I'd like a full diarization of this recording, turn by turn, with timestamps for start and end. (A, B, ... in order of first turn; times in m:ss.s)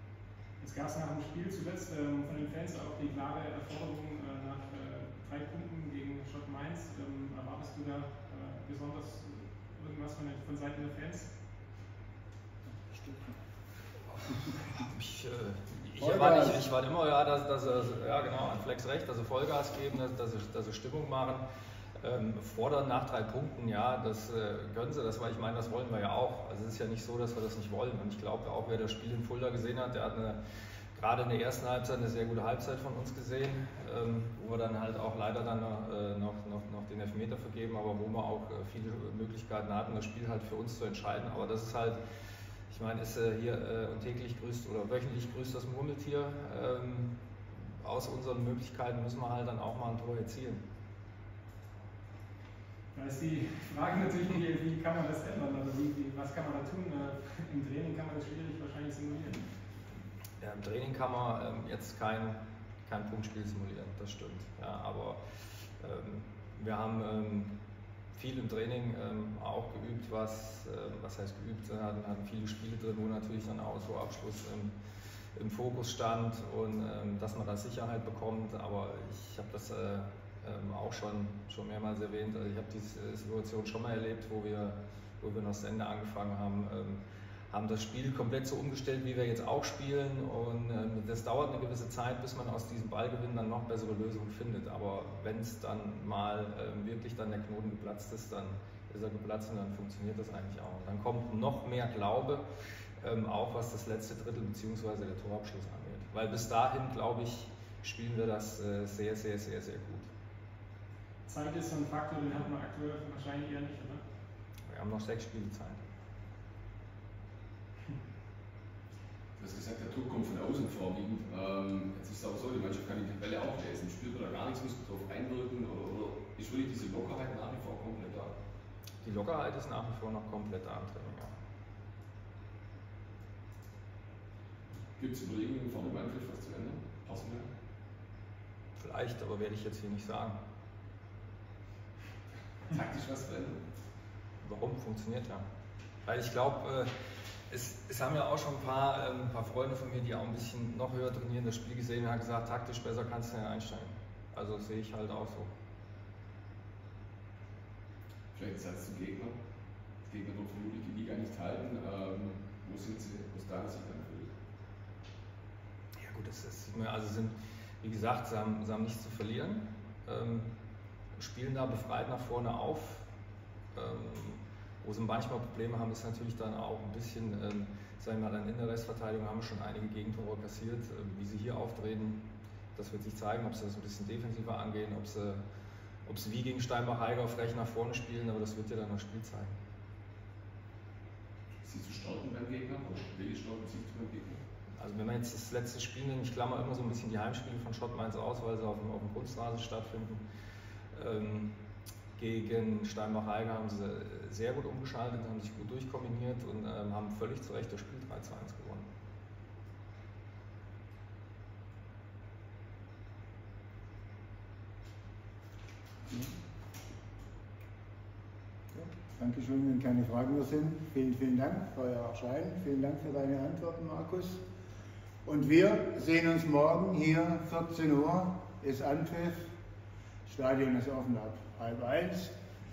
0:00.6-0:11.3 A
0:12.9-0:13.3 B
0:14.6-0:21.4 C
0:16.0-0:16.6 B
0:22.0-0:30.4 C
0:30.9-0:42.0 C
0:42.7-0:47.1 C
0:47.8-0:50.6 C
0:52.9-0:59.4 A
1:00.4-1:05.2 C
1:05.8-1:07.5 C
1:08.1-1:14.7 C
1:15.3-1:42.4 C
1:43.0-1:50.1 C
1:51.2-1:54.0 A
1:54.7-1:55.8 C
1:59.4-2:08.3 D
2:09.0-2:11.3 C
2:15.0-2:17.5 D
2:18.8-2:20.4 C
2:22.7-2:23.6 D
2:24.4-2:25.4 C
2:26.0-2:26.9 C
2:27.5-2:35.5 C
2:38.3-2:39.4 D
2:40.0-2:44.3 D
2:46.0-2:50.5 C
2:51.2-2:53.0 C
2:53.7-3:02.2 C
3:02.8-3:05.4 C
3:06.0-3:09.5 C
3:11.6-3:14.4 D
3:14.8-3:20.2 C
3:20.9-3:21.5 C
3:22.2-3:28.9 C
3:38.7-3:44.4 B
3:45.2-3:49.5 B
3:50.2-3:52.3 B